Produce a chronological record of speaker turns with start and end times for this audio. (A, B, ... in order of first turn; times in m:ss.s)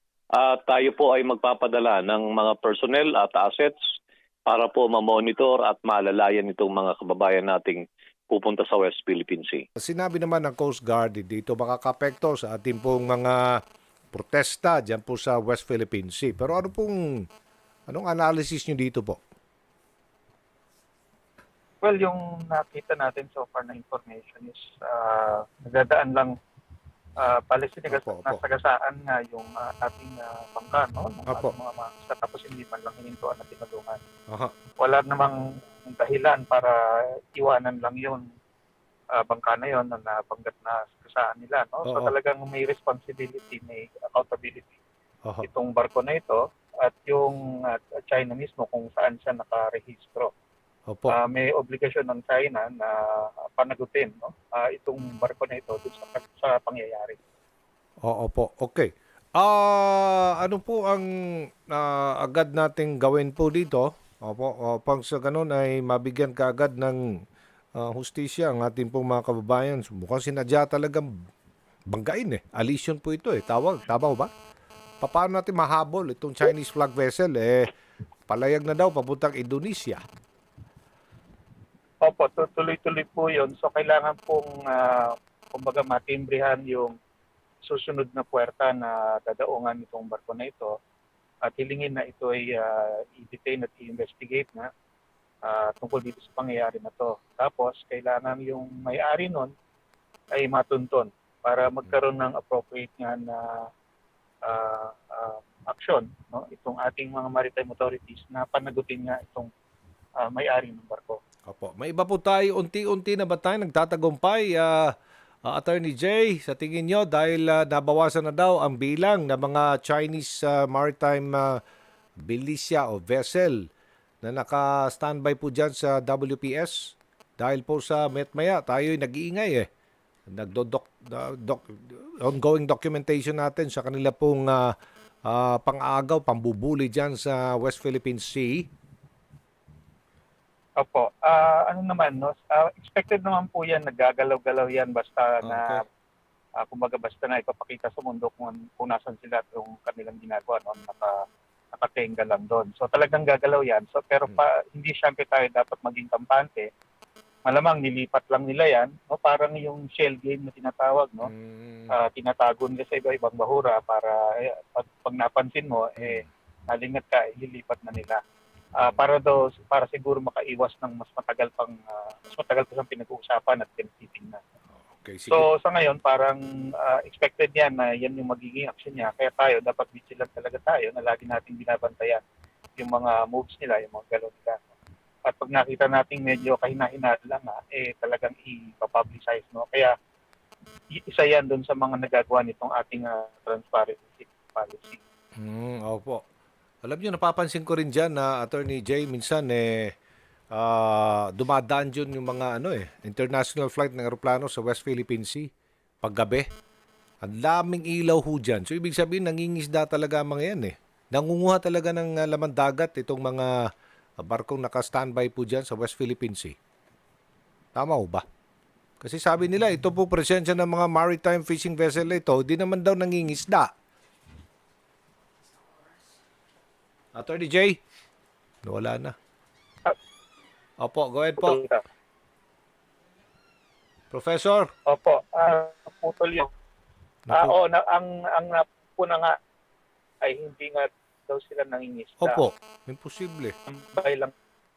0:00.4-0:03.8 A
0:04.5-0:09.6 A
0:09.8-0:13.6 B
0:14.1-0:17.2 B
0:17.9-0:19.2 B
0:21.8-0:26.3 C
0:27.2-0:34.0 C
0:27.9-0:28.4 B
0:31.3-0:31.5 B
0:34.8-0:36.8 C
0:37.3-0:38.2 C
0:39.1-0:44.8 C
0:41.8-0:42.1 B
0:45.4-0:50.3 C
0:50.9-0:51.2 B
0:51.1-0:57.2 C
0:58.0-1:01.0 B
1:01.7-1:07.0 B
1:07.8-1:11.1 B
1:11.9-1:14.3 B
1:15.0-1:17.7 B
1:18.3-1:20.0 B
1:22.0-1:26.9 C
1:27.6-1:30.7 C
1:31.4-1:34.7 C
1:35.4-1:39.5 C
1:40.3-1:43.7 C
1:44.4-1:49.5 C
1:50.2-1:51.2 C
1:51.5-1:54.8 B
1:55.4-2:01.6 B
2:02.2-2:03.6 B
2:04.2-2:09.7 B
2:10.3-2:14.7 B
2:15.2-2:18.7 B
2:20.8-2:25.8 C
2:25.4-2:25.8 B
2:26.6-2:31.2 C
2:31.7-2:36.7 C
2:37.4-2:41.3 C
2:41.2-2:41.9 B
2:41.9-2:48.2 C
2:46.0-2:46.3 B
2:48.8-2:54.4 C
2:54.9-2:55.5 B
2:55.3-3:02.2 C
3:02.8-3:04.6 C
3:05.2-3:09.9 C
3:10.9-3:15.0 C
3:15.4-3:16.2 B
3:16.8-3:19.9 B
3:20.5-3:25.5 B
3:26.0-3:26.5 B
3:27.2-3:33.5 B
3:34.2-3:36.6 B
3:37.7-3:38.2 B
3:39.0-3:43.7 B
3:47.1-3:47.8 B
3:48.6-3:49.1 B
3:50.8-3:51.6 B
3:51.4-3:51.8 C
3:54.1-3:54.7 B
3:54.9-3:56.5 C
3:57.2-3:57.5 B
3:57.3-3:59.3 C
4:00.2-4:02.4 C
4:02.2-4:03.5 B
4:03.7-4:04.3 C